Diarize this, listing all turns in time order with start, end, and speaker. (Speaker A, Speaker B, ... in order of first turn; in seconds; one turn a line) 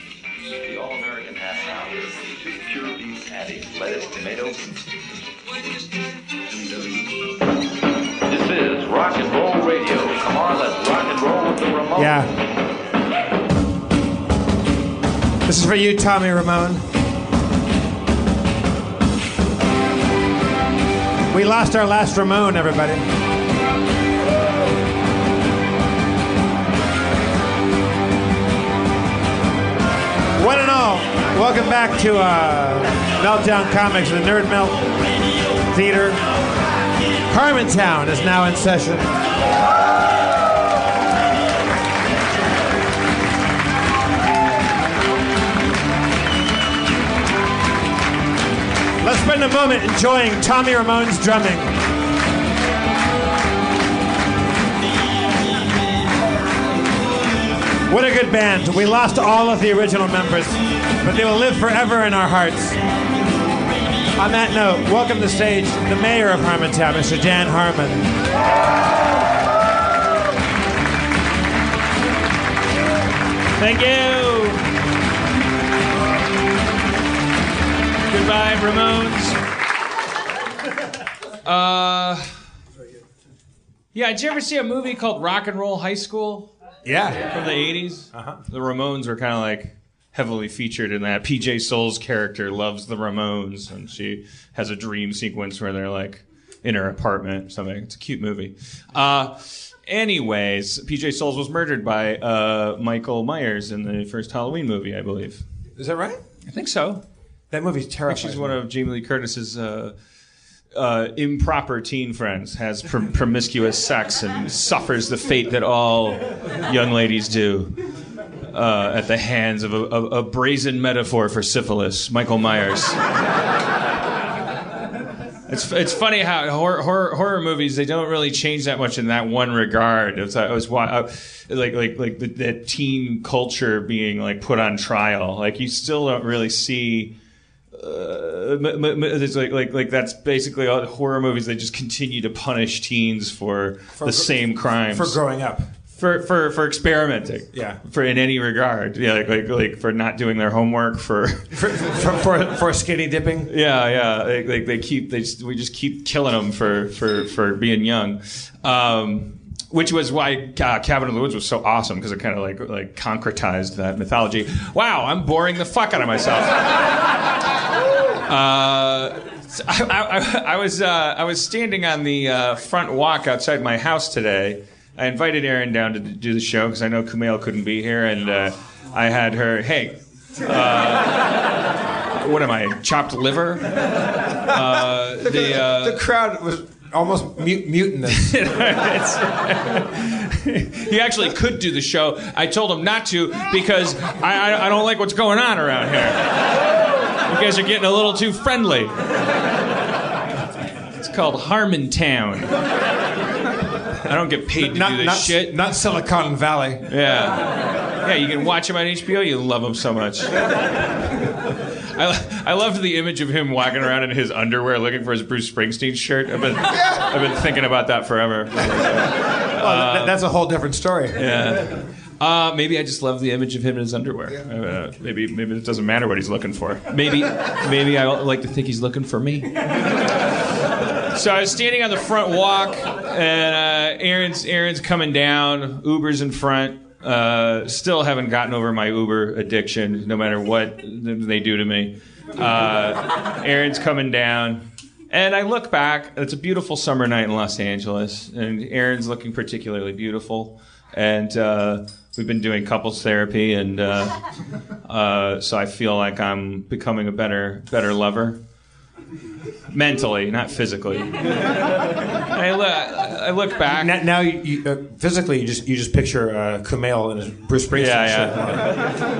Speaker A: 0.6-4.8
Speaker A: 8.2-11.9
Speaker B: 11.9-12.3
Speaker B: 15.5-16.9
Speaker B: 21.3-23.0
Speaker B: 30.4-34.9
Speaker B: 35.7-36.2
Speaker B: 37.3-39.1
Speaker B: 49.0-51.7
Speaker B: 57.9-62.8
Speaker B: 64.1-68.1
Speaker C: 73.6-74.6
Speaker C: 78.1-79.4
Speaker C: 81.4-82.3
Speaker C: 83.9-86.5
Speaker B: 86.8-87.3
Speaker C: 87.2-105.4
Speaker B: 88.1-88.4
Speaker B: 105.8-106.2
Speaker C: 106.5-107.0
Speaker B: 107.5-108.6
Speaker C: 108.1-109.9
Speaker C: 110.7-117.7
Speaker C: 118.5-123.0
Speaker C: 125.5-137.1
Speaker C: 137.7-145.2
Speaker B: 144.0-144.3
Speaker B: 144.9-145.7
Speaker C: 146.0-151.5
Speaker B: 147.5-147.8
Speaker B: 151.5-153.5
Speaker C: 153.5-166.9
Speaker C: 168.2-186.0
Speaker B: 185.2-188.3
Speaker C: 188.1-196.4
Speaker C: 197.2-198.9
Speaker C: 201.0-202.5
Speaker C: 204.0-205.6
Speaker B: 204.6-206.9
Speaker C: 206.9-210.9
Speaker C: 211.8-220.2
Speaker B: 219.5-221.2
Speaker C: 221.2-229.8
Speaker C: 231.0-254.2
Speaker C: 254.8-258.4
Speaker C: 259.7-261.4
Speaker C: 262.2-263.9
Speaker B: 263.7-268.8
Speaker C: 267.7-268.8